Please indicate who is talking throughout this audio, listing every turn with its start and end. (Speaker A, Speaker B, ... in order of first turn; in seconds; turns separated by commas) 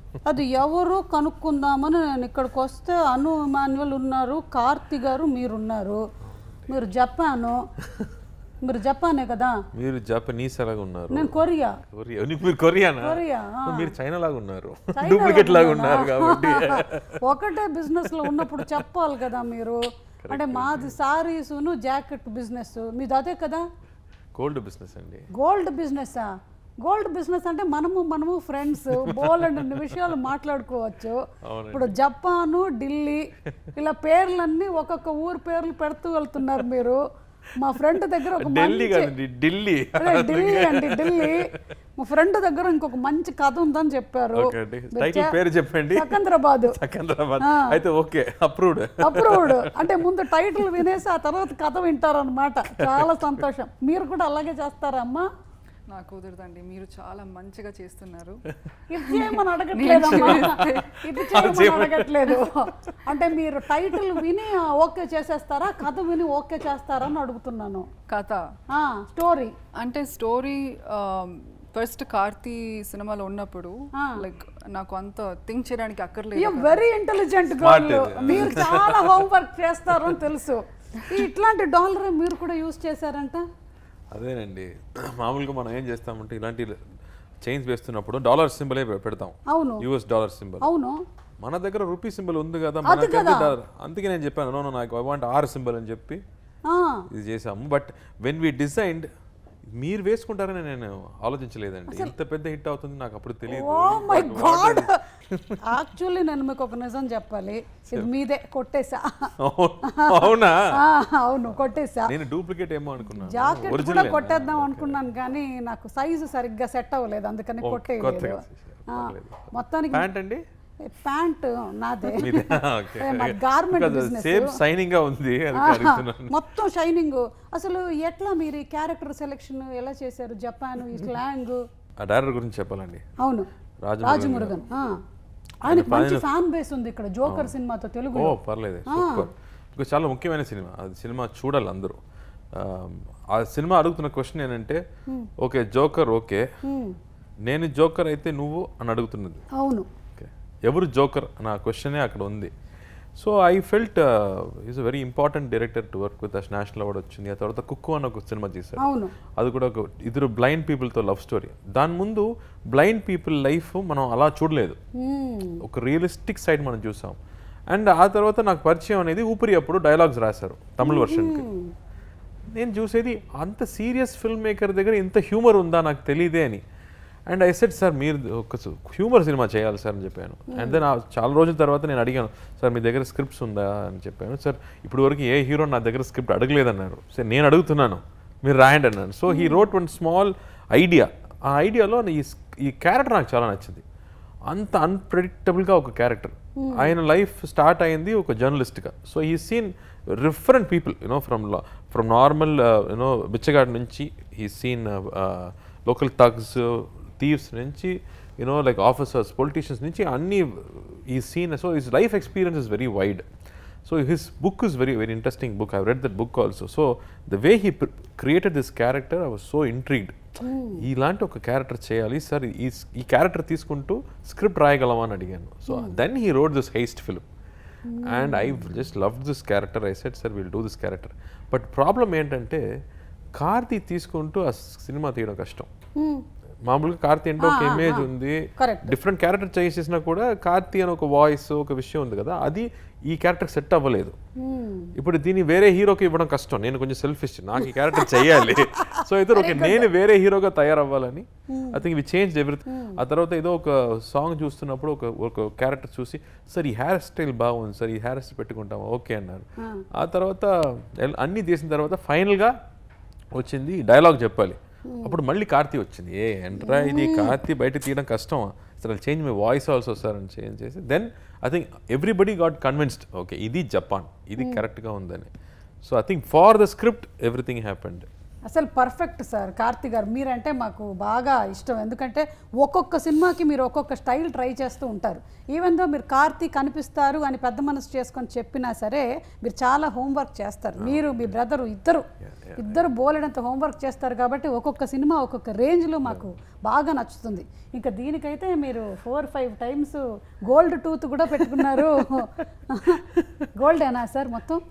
Speaker A: 0.2-6.0, Speaker A: 6.7-7.6, Speaker A: 8.6-9.6, Speaker B: 9.7-17.2, Speaker A: 11.1-11.8, Speaker A: 13.0-13.9, Speaker A: 15.0-23.7, Speaker B: 18.1-18.9, Speaker B: 20.2-21.0, Speaker B: 24.3-25.3, Speaker A: 25.3-26.3, Speaker A: 26.8-37.0, Speaker B: 28.9-30.0, Speaker B: 31.4-32.0, Speaker A: 37.5-39.1, Speaker B: 37.8-41.6, Speaker A: 40.0-45.4, Speaker B: 44.3-50.9, Speaker A: 45.9-46.8, Speaker A: 47.4-47.8, Speaker A: 49.0-55.3, Speaker B: 52.8-53.5, Speaker C: 55.9-58.4, Speaker A: 58.9-67.9, Speaker C: 59.0-61.6, Speaker B: 60.0-62.5, Speaker B: 63.9-64.2, Speaker C: 68.1-68.5, Speaker A: 68.7-69.5, Speaker C: 69.8-76.8, Speaker A: 74.0-74.2, Speaker A: 76.4-83.5, Speaker B: 77.6-79.2, Speaker B: 84.1-86.8, Speaker B: 87.4-90.7, Speaker A: 89.5-89.8, Speaker A: 90.6-91.0, Speaker B: 91.4-96.2, Speaker A: 92.8-93.5, Speaker A: 96.7-97.1, Speaker B: 97.1-99.1, Speaker B: 99.7-105.8, Speaker A: 103.5-105.0, Speaker A: 105.6-109.3, Speaker B: 109.4-110.8, Speaker A: 109.8-112.1, Speaker B: 112.0-115.0, Speaker A: 113.2-120.1, Speaker B: 117.6-120.4, Speaker A: 120.8-124.6, Speaker B: 122.1-126.3, Speaker A: 125.5-131.6, Speaker B: 132.0-133.1, Speaker A: 133.2-133.5, Speaker B: 133.8-134.6, Speaker A: 134.0-135.0, Speaker A: 135.7-138.4, Speaker B: 135.7-136.3, Speaker B: 137.2-137.5, Speaker B: 138.2-142.0, Speaker A: 138.9-139.3, Speaker B: 142.5-144.8, Speaker B: 145.4-146.5, Speaker A: 146.6-147.0, Speaker B: 147.4-149.4, Speaker A: 149.5-149.9, Speaker B: 150.2-152.5, Speaker B: 153.2-164.8, Speaker A: 158.8-159.1, Speaker A: 165.0-165.6, Speaker B: 165.6-167.2, Speaker B: 167.7-171.5, Speaker A: 170.8-171.7, Speaker B: 172.5-176.6, Speaker B: 177.3-193.8, Speaker A: 180.5-180.8, Speaker A: 189.3-189.6, Speaker B: 194.5-213.3, Speaker A: 196.6-196.9, Speaker B: 213.8-220.2, Speaker A: 220.4-220.8, Speaker B: 220.8-227.3, Speaker A: 225.7-226.0, Speaker A: 227.9-228.7, Speaker B: 228.0-232.6, Speaker B: 233.4-235.7, Speaker A: 236.0-236.2, Speaker B: 236.6-244.2, Speaker A: 237.4-238.9, Speaker A: 244.4-244.9, Speaker B: 245.0-262.6, Speaker A: 248.0-249.9, Speaker A: 251.5-251.8, Speaker A: 252.7-253.0, Speaker A: 259.6-259.9, Speaker B: 263.4-275.3, Speaker A: 264.9-265.2, Speaker A: 266.6-267.4, Speaker A: 274.4-274.6, Speaker B: 275.8-278.1, Speaker A: 278.5-292.1, Speaker B: 290.8-291.3, Speaker B: 292.2-292.9, Speaker A: 292.6-303.1, Speaker B: 301.4-301.9, Speaker B: 303.1-303.5, Speaker A: 303.6-304.6